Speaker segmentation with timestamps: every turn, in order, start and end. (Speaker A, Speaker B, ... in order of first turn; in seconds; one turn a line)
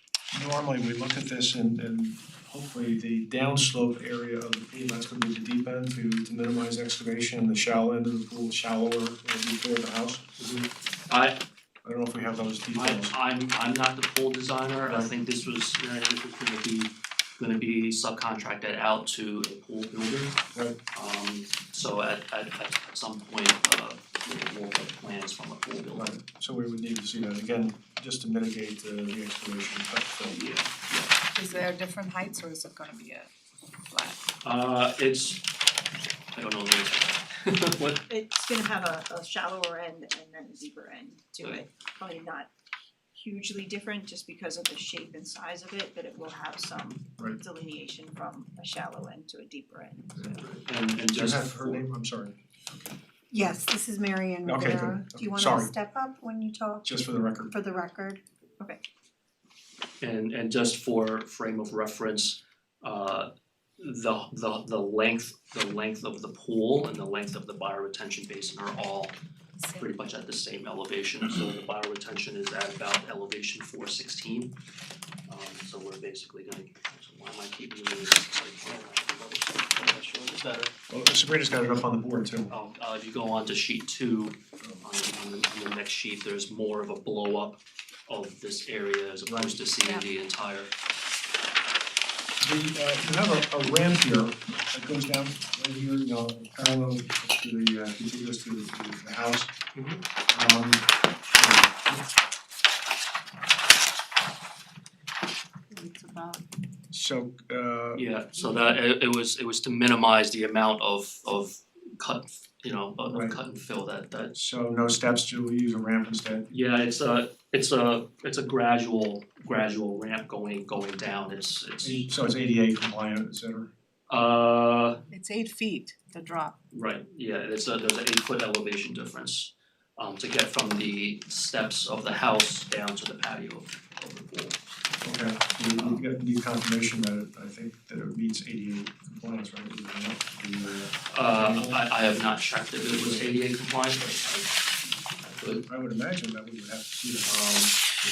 Speaker A: 0.3-10.2
Speaker B: 10.4-11.4
Speaker A: 11.8-13.1
Speaker B: 12.7-20.4
Speaker B: 20.9-26.1
Speaker A: 26.0-30.3
Speaker B: 30.2-31.2
Speaker C: 31.3-33.3
Speaker C: 33.9-34.3
Speaker B: 34.4-35.4
Speaker B: 36.3-38.0
Speaker D: 38.1-42.5
Speaker B: 41.4-41.6
Speaker D: 43.1-50.4
Speaker B: 50.2-51.9
Speaker A: 51.2-52.9
Speaker E: 53.3-56.9
Speaker A: 56.9-57.4
Speaker E: 57.5-58.2
Speaker B: 60.0-63.3
Speaker B: 63.8-69.1
Speaker C: 69.6-69.8
Speaker B: 69.7-74.5
Speaker B: 75.3-80.7
Speaker A: 80.9-82.5
Speaker B: 82.5-90.7
Speaker A: 92.4-99.5
Speaker B: 99.7-100.0
Speaker A: 100.3-100.8
Speaker A: 101.4-102.1
Speaker C: 105.7-106.4
Speaker A: 106.9-107.9
Speaker B: 107.9-114.3
Speaker A: 114.4-116.5
Speaker B: 116.5-122.1
Speaker A: 121.8-123.7
Speaker B: 124.1-125.0
Speaker C: 125.1-126.6
Speaker B: 126.7-134.7
Speaker A: 135.0-140.9
Speaker B: 135.7-136.1
Speaker B: 141.1-144.6
Speaker A: 141.4-141.8
Speaker B: 145.2-145.7
Speaker A: 145.7-147.3
Speaker B: 147.2-147.7